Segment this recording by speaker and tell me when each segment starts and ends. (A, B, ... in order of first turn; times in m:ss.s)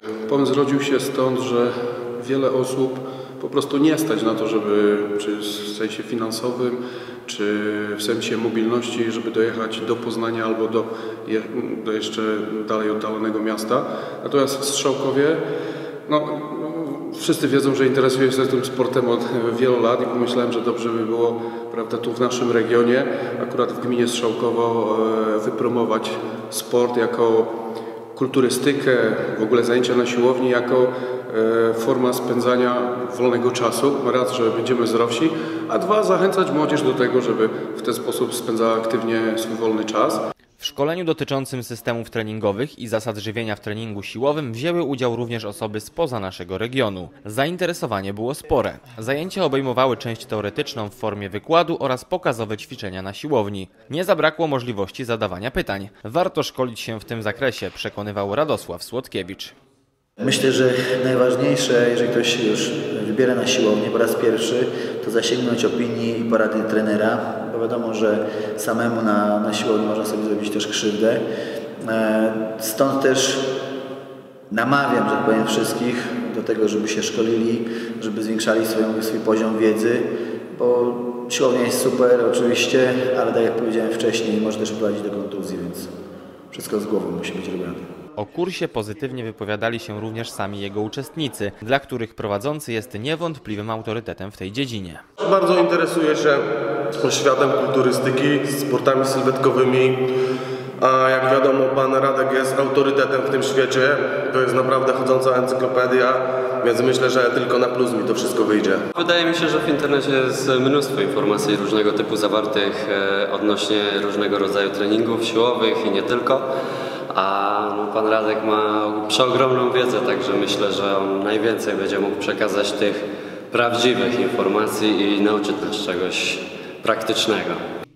0:00.3-0:15.4 A
0:16.1-0:27.6 A
0:28.1-0:40.2 A
0:40.6-0:59.5 B
1:00.2-1:11.2 C
1:11.8-1:13.5 C
1:14.5-1:25.9 C
1:26.5-1:27.9 C
1:28.2-1:35.0 B
1:35.2-1:40.1 D
1:40.8-1:48.8 D
1:49.0-1:56.5 E
1:57.1-2:07.6 E